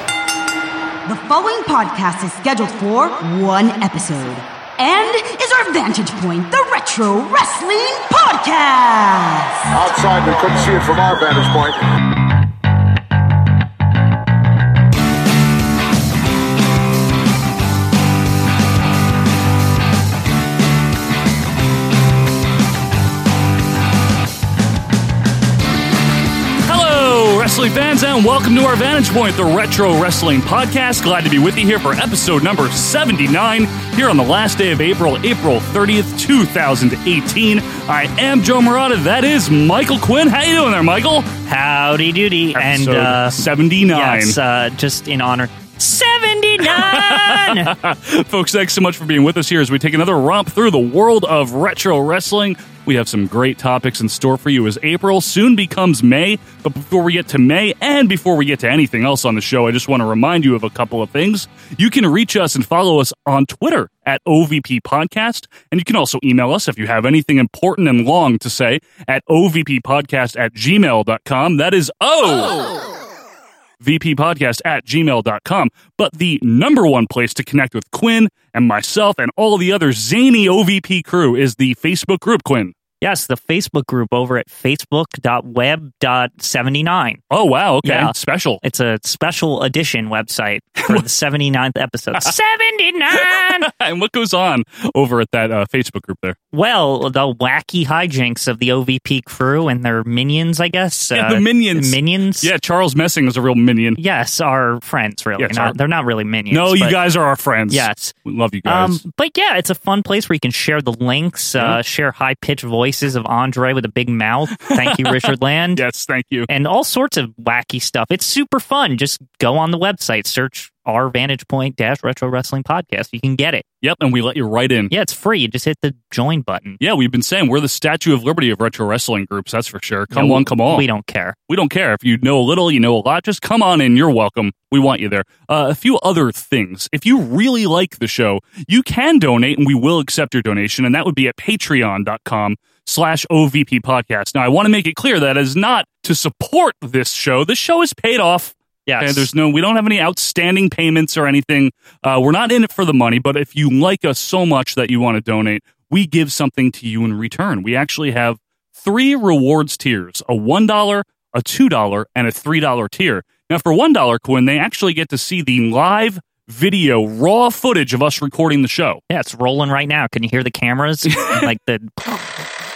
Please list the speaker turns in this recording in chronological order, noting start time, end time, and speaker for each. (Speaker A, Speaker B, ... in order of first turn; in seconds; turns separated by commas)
Speaker A: 1.1-9.9, Speaker B: 9.8-11.8, Speaker C: 26.6-41.3, Speaker D: 41.5-47.7, Speaker C: 42.5-44.4, Speaker C: 46.6-72.7, Speaker C: 73.8-82.7, Speaker D: 83.0-87.2, Speaker C: 87.3-88.6, Speaker D: 87.8-93.7, Speaker C: 90.8-91.0, Speaker C: 93.1-96.3, Speaker D: 96.5-102.5, Speaker C: 101.1-104.0, Speaker D: 104.0-107.0, Speaker C: 105.4-105.8, Speaker C: 106.5-109.0, Speaker D: 107.7-108.1, Speaker D: 108.7-115.8, Speaker C: 114.6-116.5, Speaker D: 116.5-123.6, Speaker C: 123.8-124.9, Speaker D: 124.9-126.8, Speaker C: 126.8-130.9, Speaker D: 130.1-131.3, Speaker C: 131.5-169.0, Speaker D: 148.8-149.3, Speaker D: 169.1-172.3, Speaker C: 171.0-171.5